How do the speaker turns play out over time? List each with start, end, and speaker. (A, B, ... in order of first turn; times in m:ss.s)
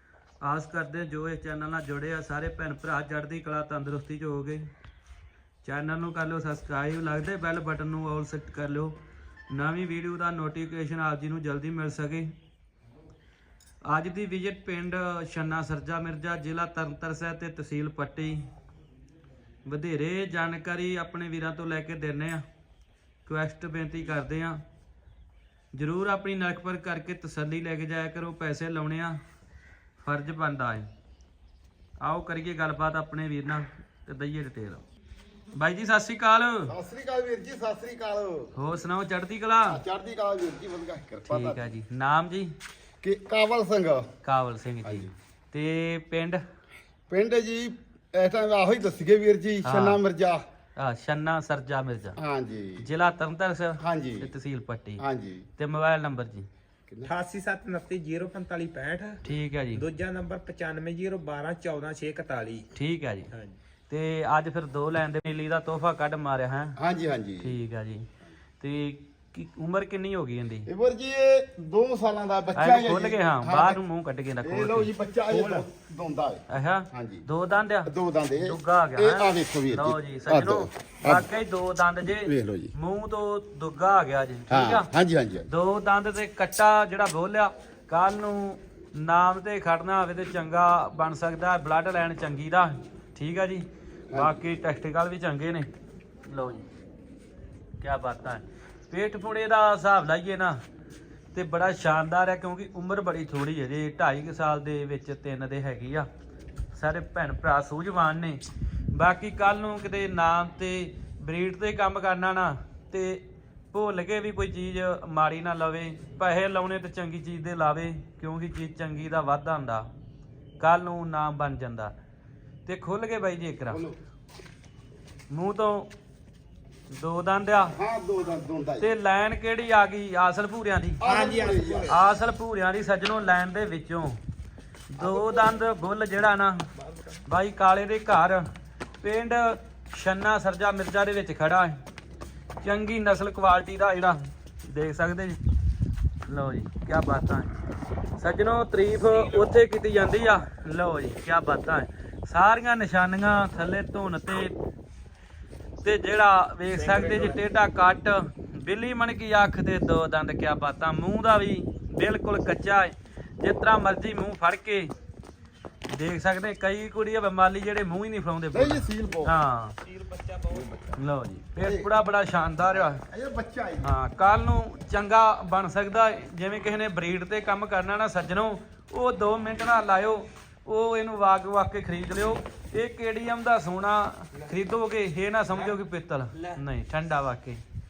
0:00.4-0:04.7 A
0:05.6-0:09.0 A
0:09.5-0:12.3 A
0:13.8-0:18.5 A
0:19.6-0:22.4 A
0:23.2-0:24.6 A
0:25.7-0:29.2 A
0:30.0-0:30.9 A
0:32.0-0:34.8 A
0:35.5-0:36.7 A
0:36.7-0:38.5 B
0:38.5-0:39.8 A
0:39.7-0:41.7 B
0:41.3-0:42.5 A
0:43.0-0:44.1 B
0:44.2-0:46.4 A
0:44.8-0:45.1 B
0:47.1-0:50.4 B
0:49.6-0:50.0 A
0:50.8-0:52.2 A
0:52.2-0:52.8 B
0:52.8-0:55.0 A
0:53.8-0:54.3 B
0:55.0-0:55.5 B
0:55.6-0:56.5 A
0:57.0-0:59.2 C
0:59.2-0:59.8 A
0:59.7-1:02.7 C
1:02.7-1:03.3 A
1:03.3-1:03.6 C
1:03.9-1:06.8 A
1:06.8-1:07.5 B
1:07.4-1:08.1 A
1:08.6-1:10.7 A
1:10.7-1:13.8 B
1:12.5-1:14.9 A
1:14.4-1:17.2 B
1:16.5-1:24.9 A
1:17.8-1:21.3 B
1:22.1-1:22.7 B
1:24.5-1:25.5 B
1:25.5-1:35.7 A
1:36.3-1:36.6 A
1:37.8-1:40.6 A
1:41.3-1:46.1 A
1:46.7-1:48.4 A
1:48.9-1:59.9 A
2:00.6-2:01.9 A
2:02.6-2:03.8 A
2:03.7-2:04.0 B
2:05.3-2:05.9 A
2:06.9-2:07.7 A
2:07.7-2:08.9 B
2:08.8-2:11.0 A
2:11.0-2:12.0 B
2:11.0-2:12.0 C
2:11.9-2:14.2 A
2:14.9-2:16.7 A
2:15.0-2:15.6 B
2:16.7-2:17.2 C
2:17.2-2:18.5 A
2:19.0-2:21.8 A
2:22.6-2:25.4 A
2:26.2-2:27.5 A
2:28.2-2:34.6 A
2:29.0-2:29.5 C
2:35.8-2:44.9 A
2:36.7-2:37.4 C
2:45.9-2:49.7 A
2:48.5-2:49.3 B
2:49.8-2:51.0 C
2:50.6-2:50.9 B
2:51.0-2:53.0 A
2:51.6-2:51.9 B
2:52.7-2:53.9 B
2:53.8-3:07.6 A